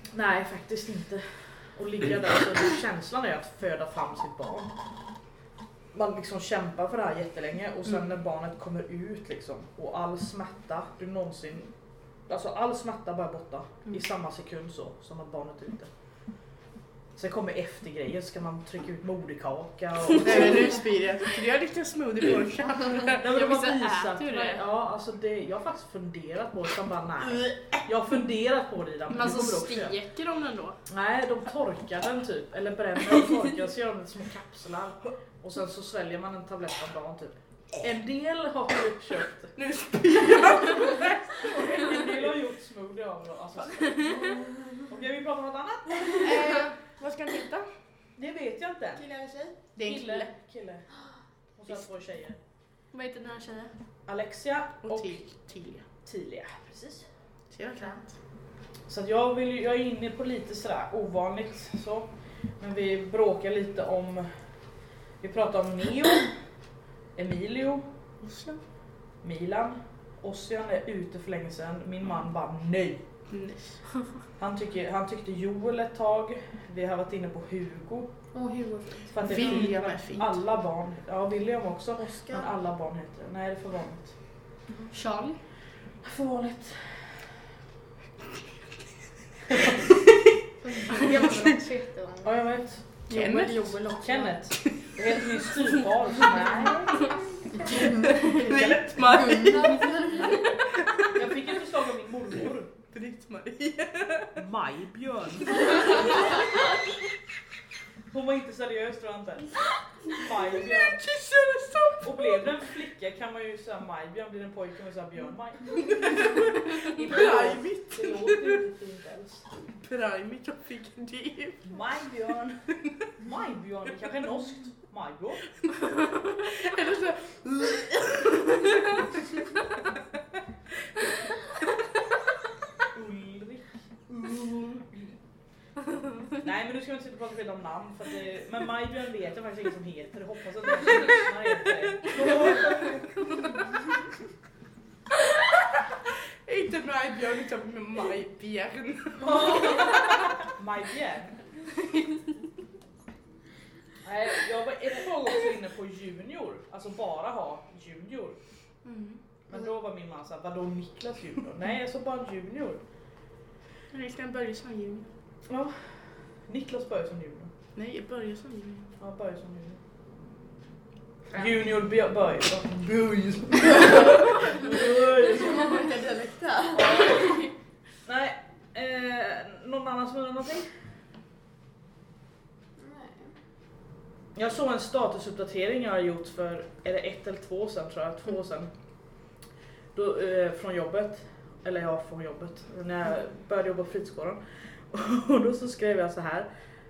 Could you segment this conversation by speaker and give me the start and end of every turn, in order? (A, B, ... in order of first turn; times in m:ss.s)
0:00.1-0:04.7 A
0:05.9-0:11.7 A
0:12.3-0:15.9 A
0:17.2-0:20.9 A
0:20.2-0:23.2 B
0:23.2-0:30.0 A
0:23.3-0:24.6 C
0:29.1-0:30.8 C
0:30.9-0:39.6 A
0:39.6-0:41.2 B
0:40.3-0:46.5 A
0:46.2-0:47.7 B
0:48.2-0:49.0 A
0:49.0-0:49.5 D
0:49.8-0:50.3 B
0:49.8-0:50.9 A
0:51.6-0:52.4 A
0:52.9-0:53.7 C
0:54.1-0:55.3 A
0:54.8-0:55.8 B
0:56.0-0:57.1 A
0:57.5-0:58.2 B
0:58.9-1:04.4 A
1:05.2-1:06.4 A
1:07.2-1:07.9 A
1:08.2-1:08.6 B
1:09.2-1:13.0 A
1:13.3-1:13.8 B
1:14.4-1:18.1 A
1:18.3-1:19.2 D
1:19.1-1:24.2 A
1:19.2-1:20.4 B
1:22.1-1:22.4 D
1:24.9-1:25.4 C
1:26.0-1:27.3 A
1:29.5-1:29.9 A
1:30.6-1:32.4 E
1:32.2-1:33.1 A
1:33.1-1:33.8 B
1:33.1-1:34.3 E
1:34.0-1:39.2 A
1:34.6-1:34.9 B
1:37.6-1:40.4 D
1:38.2-1:40.1 B
1:40.8-1:41.2 B
1:41.1-1:42.7 A
1:42.9-1:44.4 B
1:44.4-1:46.4 A
1:48.1-1:51.0 A
1:50.3-1:52.6 B
1:52.0-1:59.5 A
1:57.0-1:58.6 B
1:59.8-2:01.8 B
2:01.6-2:02.6 A
2:03.1-2:05.5 A
2:05.8-2:09.2 B
2:12.9-2:15.1 A
2:16.4-2:23.1 A
2:26.5-2:30.1 B
2:29.2-2:31.4 A
2:34.0-2:38.4 A
2:38.8-2:39.2 B
2:39.5-2:42.8 A
2:43.9-2:45.1 B
2:45.5-2:47.5 A
2:47.8-2:48.9 B
2:49.0-2:49.8 A
2:51.3-2:55.8 A
2:55.2-2:57.2 D
2:56.8-2:57.1 A
2:58.0-3:00.8 A
3:02.8-3:03.4 D
3:04.4-3:09.3 A
3:09.9-3:16.5 A